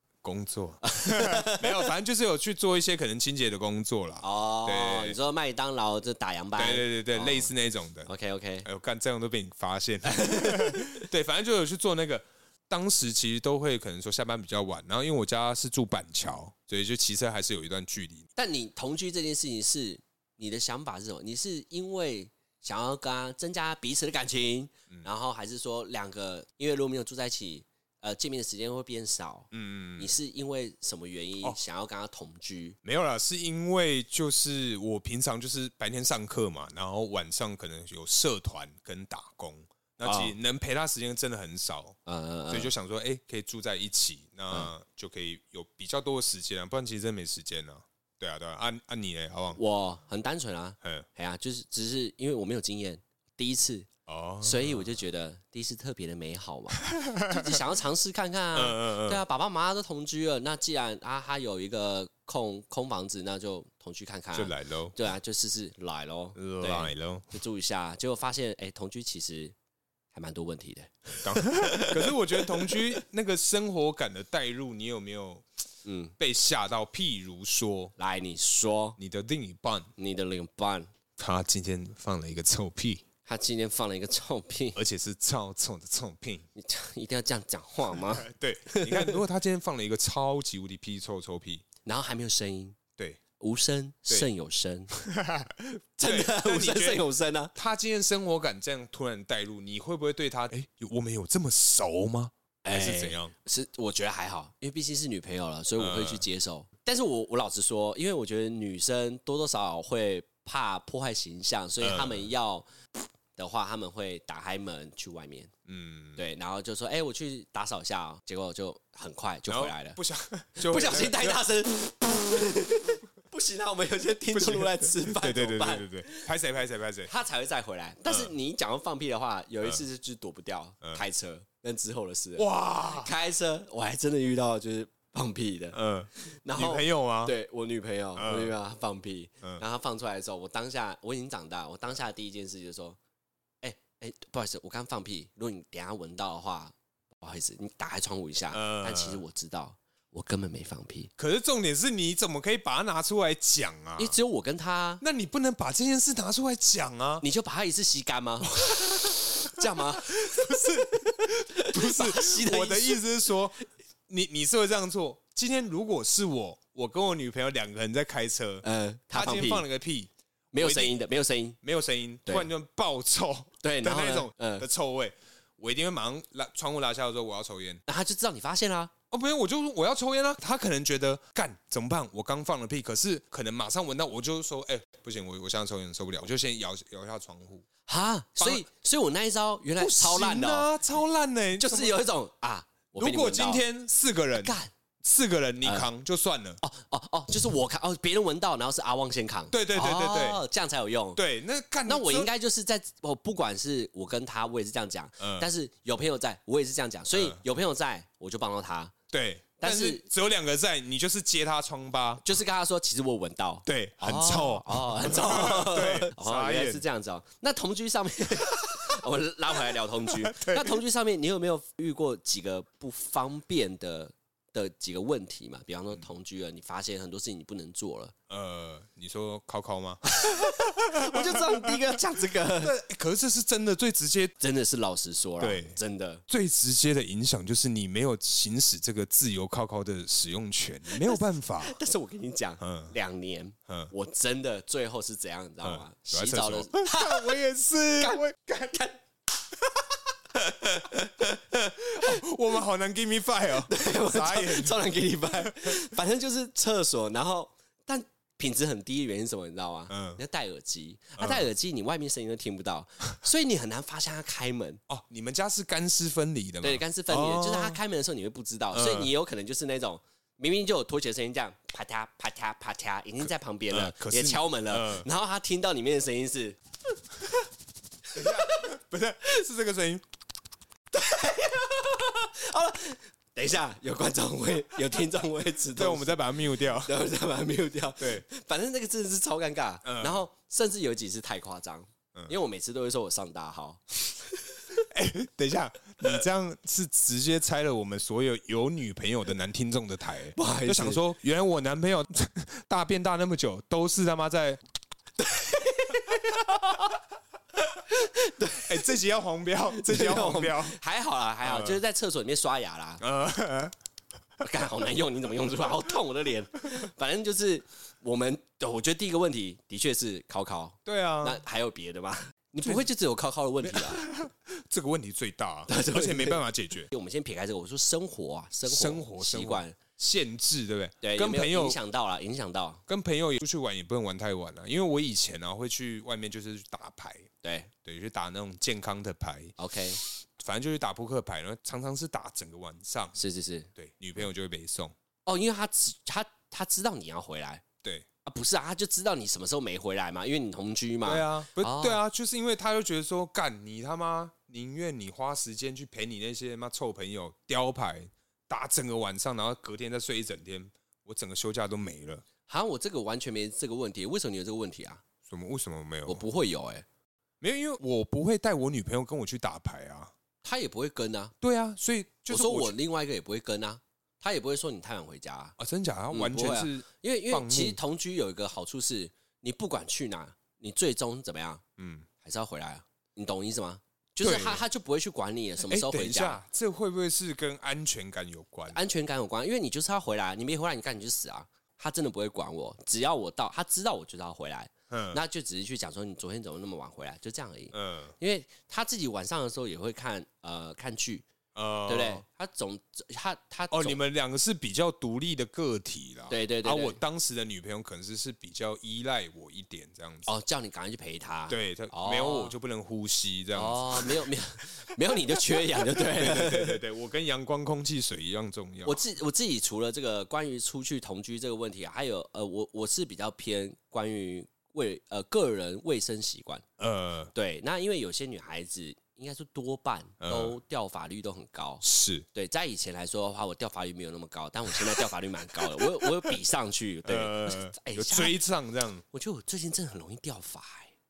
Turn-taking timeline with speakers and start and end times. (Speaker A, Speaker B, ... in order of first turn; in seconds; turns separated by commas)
Speaker A: 0.2-5.2, Speaker B: 0.8-1.9, Speaker B: 4.2-7.5, Speaker A: 6.6-8.1, Speaker B: 8.1-8.7, Speaker A: 8.6-18.3, Speaker B: 10.1-11.0, Speaker B: 18.4-32.8, Speaker A: 29.5-30.1, Speaker A: 32.8-42.0, Speaker B: 40.0-40.4, Speaker B: 42.1-42.7, Speaker A: 42.5-49.6, Speaker B: 49.5-53.9, Speaker A: 50.8-51.1, Speaker A: 54.1-54.9, Speaker B: 54.4-69.5, Speaker A: 56.8-57.6, Speaker A: 58.5-59.2, Speaker A: 64.3-65.0, Speaker A: 66.4-67.2, Speaker B: 70.1-73.0, Speaker A: 71.2-75.5, Speaker B: 75.8-76.2, Speaker A: 76.2-77.9, Speaker B: 78.0-79.0, Speaker A: 79.0-79.9, Speaker B: 80.0-80.9, Speaker A: 81.2-83.0, Speaker B: 83.2-84.8, Speaker A: 84.8-86.4, Speaker B: 86.6-89.2, Speaker A: 87.9-91.7, Speaker B: 91.8-92.8, Speaker B: 93.4-94.9, Speaker A: 94.9-103.3, Speaker B: 96.0-97.5, Speaker B: 102.6-112.7, Speaker A: 105.8-106.2, Speaker A: 111.8-112.3, Speaker B: 113.3-115.5, Speaker A: 115.7-116.2, Speaker B: 116.2-120.0, Speaker A: 119.5-121.4, Speaker B: 120.6-126.3, Speaker A: 124.3-127.1, Speaker B: 127.1-143.0, Speaker A: 128.1-128.3, Speaker A: 132.4-133.1, Speaker A: 135.7-137.3, Speaker A: 138.2-138.5, Speaker B: 143.6-151.1, Speaker A: 148.5-149.2, Speaker A: 151.2-154.2, Speaker B: 154.0-155.0, Speaker A: 155.0-157.2, Speaker B: 157.2-163.0, Speaker A: 158.4-171.0, Speaker B: 168.6-169.7, Speaker B: 170.5-171.6, Speaker A: 171.6-177.8, Speaker B: 173.6-174.7, Speaker B: 177.9-178.9, Speaker A: 179.1-187.7, Speaker B: 187.9-190.7, Speaker A: 188.4-188.7, Speaker A: 189.8-192.0, Speaker B: 191.6-193.7, Speaker A: 193.0-196.6, Speaker B: 194.4-194.7, Speaker B: 196.6-201.2, Speaker A: 199.5-200.4, Speaker A: 201.2-202.3, Speaker B: 201.9-208.9, Speaker A: 205.2-205.5, Speaker A: 207.1-207.4, Speaker A: 209.1-212.2, Speaker B: 209.6-210.1, Speaker B: 212.2-228.1, Speaker A: 213.7-216.8, Speaker A: 218.5-218.9, Speaker A: 220.1-220.8, Speaker A: 228.3-234.3, Speaker B: 230.1-232.8, Speaker B: 234.4-236.2, Speaker A: 235.4-241.9, Speaker B: 240.9-247.4, Speaker A: 242.6-242.9, Speaker A: 243.7-243.9, Speaker A: 245.6-248.8, Speaker B: 248.0-249.0, Speaker A: 250.3-255.8, Speaker B: 250.6-251.3, Speaker B: 252.0-252.2, Speaker B: 253.5-264.8, Speaker A: 259.9-260.2, Speaker A: 261.2-261.4, Speaker A: 264.9-267.8, Speaker B: 266.6-276.6, Speaker A: 268.7-269.1, Speaker A: 273.7-275.1, Speaker A: 278.1-280.0, Speaker B: 278.1-278.6, Speaker B: 280.9-294.8, Speaker A: 285.8-287.0, Speaker A: 288.0-288.2, Speaker A: 289.8-290.2, Speaker A: 294.8-304.6, Speaker B: 300.3-301.0, Speaker B: 305.2-306.9, Speaker B: 307.6-308.9, Speaker A: 308.6-310.8, Speaker B: 309.7-313.0, Speaker A: 311.4-311.8, Speaker A: 313.0-313.8, Speaker B: 314.4-324.2, Speaker A: 320.9-321.4, Speaker A: 323.6-326.9, Speaker B: 325.7-329.8, Speaker A: 328.7-331.8, Speaker B: 331.0-332.8, Speaker A: 332.9-337.3, Speaker B: 337.4-337.7, Speaker A: 337.8-343.2, Speaker B: 339.6-340.0, Speaker B: 343.2-343.7, Speaker A: 343.8-344.9, Speaker B: 345.3-347.6, Speaker B: 348.2-352.0, Speaker A: 351.0-362.2, Speaker B: 362.5-365.0, Speaker A: 365.3-366.2, Speaker B: 366.1-366.8, Speaker A: 367.4-370.1, Speaker B: 370.4-371.3, Speaker A: 371.4-372.8, Speaker B: 372.3-375.6, Speaker A: 375.6-377.8, Speaker B: 376.1-381.6, Speaker A: 381.8-382.1, Speaker B: 382.2-386.4, Speaker A: 384.2-384.6, Speaker A: 385.6-388.8, Speaker B: 388.7-401.3, Speaker A: 394.9-395.2, Speaker A: 397.7-398.1, Speaker A: 401.6-402.2, Speaker B: 401.9-404.0, Speaker A: 403.7-410.3, Speaker B: 406.3-407.0, Speaker B: 410.3-412.6, Speaker A: 411.5-414.3, Speaker B: 413.5-416.8, Speaker A: 414.9-419.0, Speaker B: 418.8-426.6, Speaker A: 426.8-427.3, Speaker B: 427.3-431.8, Speaker A: 430.2-430.6, Speaker A: 431.8-432.3, Speaker B: 432.3-438.4, Speaker A: 434.8-435.1, Speaker A: 435.7-436.4, Speaker A: 437.1-439.0, Speaker B: 439.1-440.9